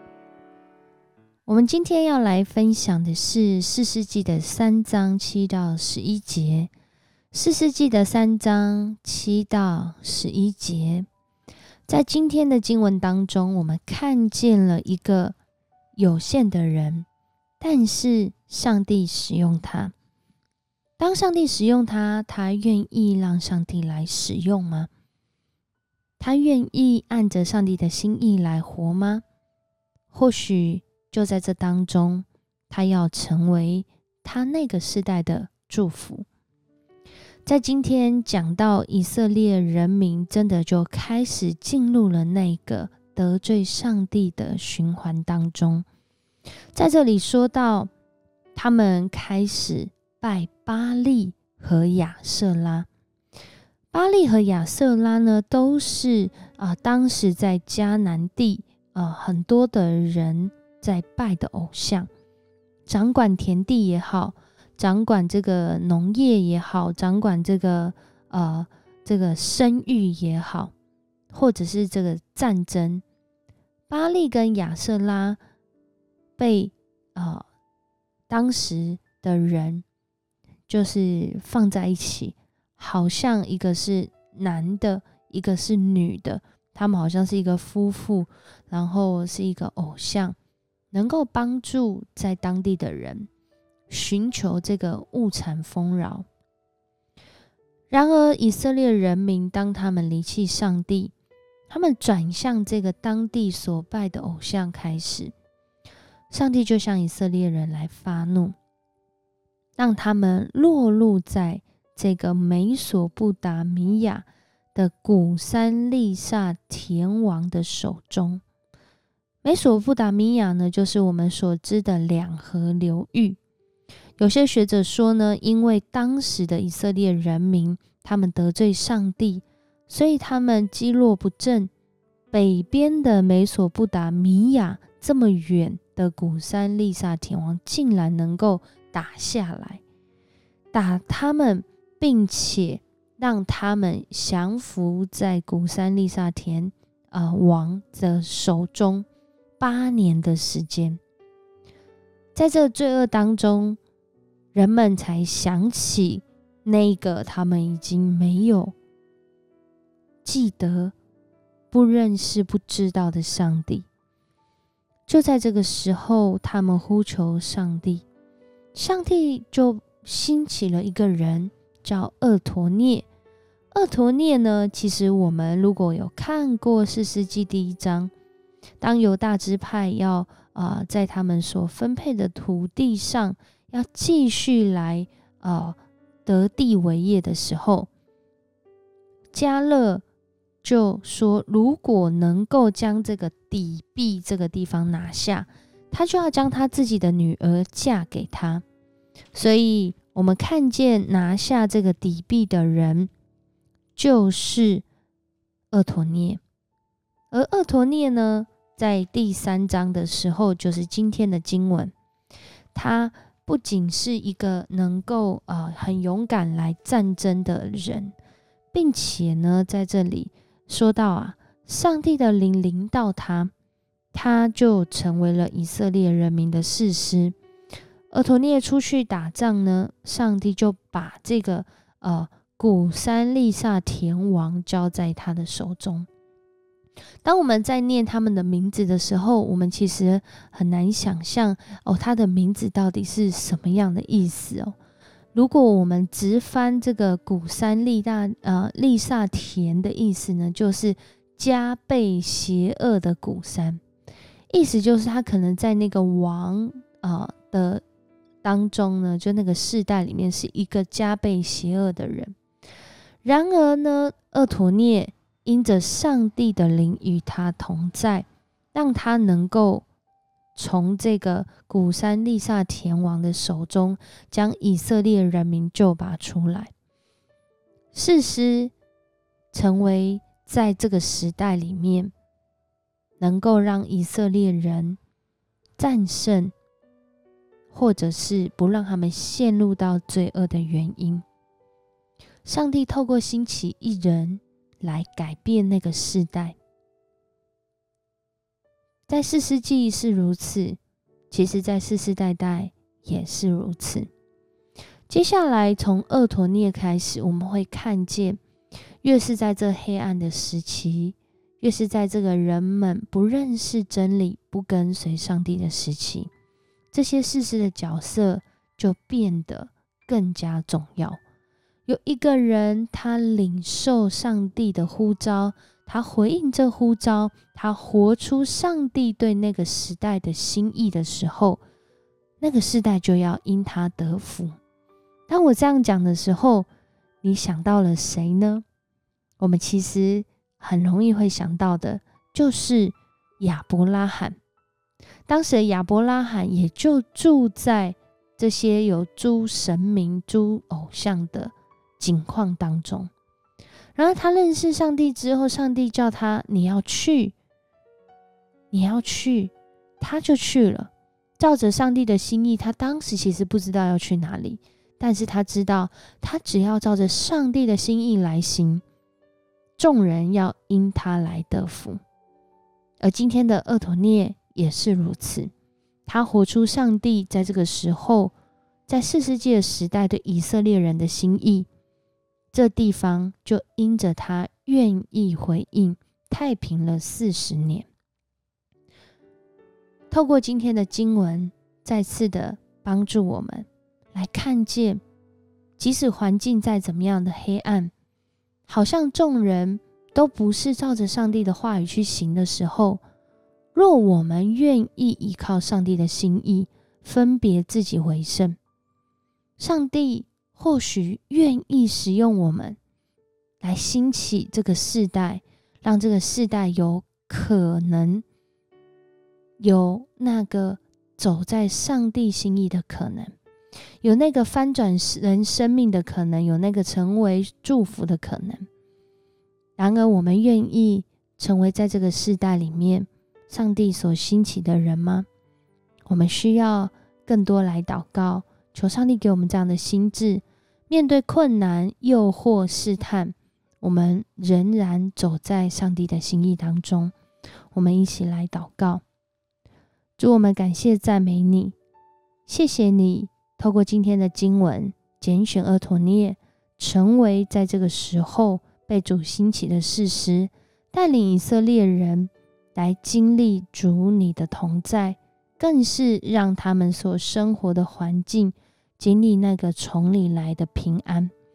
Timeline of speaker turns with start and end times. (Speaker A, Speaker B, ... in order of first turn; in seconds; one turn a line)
Speaker A: 1.4-6.7
Speaker A: 7.3-11.1
Speaker A: 11.9-15.3
Speaker A: 16.0-17.1
Speaker A: 17.6-19.9
Speaker A: 21.0-24.9
Speaker A: 26.2-29.2
Speaker A: 30.1-36.3
Speaker A: 37.5-45.9
Speaker A: 46.7-47.9
Speaker A: 48.5-52.9
Speaker A: 53.9-62.1
Speaker A: 62.9-70.7
Speaker A: 71.3-73.0
Speaker A: 73.9-75.4
Speaker A: 76.4-77.4
Speaker A: 78.3-79.8
Speaker A: 80.7-90.4
Speaker A: 90.9-93.3
Speaker A: 93.9-96.3
Speaker A: 97.9-101.1
Speaker A: 101.7-105.3
Speaker A: 106.3-108.5
Speaker A: 109.8-118.4
Speaker A: 119.4-123.4
Speaker A: 124.2-131.7
Speaker A: 132.3-139.8
Speaker A: 140.7-149.1
Speaker A: 149.6-151.0
Speaker A: 152.3-153.8
Speaker A: 154.5-158.8
Speaker A: 160.2-160.9
Speaker A: 161.7-163.9
Speaker A: 165.1-168.1
Speaker A: 168.7-173.1
Speaker A: 173.7-178.1
Speaker A: 178.8-187.9
Speaker A: 189.3-190.0
Speaker A: 190.6-198.6
Speaker A: 199.3-203.1
Speaker A: 204.0-204.8
Speaker A: 205.7-206.4
Speaker A: 207.3-211.9
Speaker A: 212.7-218.2
Speaker A: 218.7-223.5
Speaker A: 224.1-227.3
Speaker A: 228.1-236.1
Speaker A: 237.2-244.8
Speaker A: 245.3-253.8
Speaker A: 254.5-257.8
Speaker A: 258.4-262.3
Speaker A: 263.2-269.9
Speaker A: 270.6-276.7
Speaker A: 277.9-278.7
Speaker A: 279.5-282.1
Speaker A: 283.2-285.0
Speaker A: 285.8-286.5
Speaker A: 287.7-291.2
Speaker A: 292.4-296.6
Speaker A: 299.1-300.8
Speaker A: 301.3-304.1
Speaker A: 305.1-308.4
Speaker A: 309.0-316.3
Speaker A: 316.9-321.2
Speaker A: 321.9-331.6
Speaker A: 332.4-334.6
Speaker A: 335.3-336.7
Speaker A: 337.2-338.6
Speaker A: 339.4-344.4
Speaker A: 345.3-353.1
Speaker A: 353.9-357.4
Speaker A: 358.7-368.8
Speaker A: 369.8-372.0
Speaker A: 373.0-375.5
Speaker A: 376.1-378.3
Speaker A: 378.9-381.7
Speaker A: 382.5-387.9
Speaker A: 390.1-395.0
Speaker A: 395.8-397.9
Speaker A: 398.7-403.0
Speaker A: 403.8-408.6
Speaker A: 409.6-412.8
Speaker A: 413.6-418.2
Speaker A: 419.6-423.4
Speaker A: 424.0-428.6
Speaker A: 429.8-435.3
Speaker A: 436.1-447.1
Speaker A: 447.7-449.0
Speaker A: 450.2-451.8
Speaker A: 452.5-471.3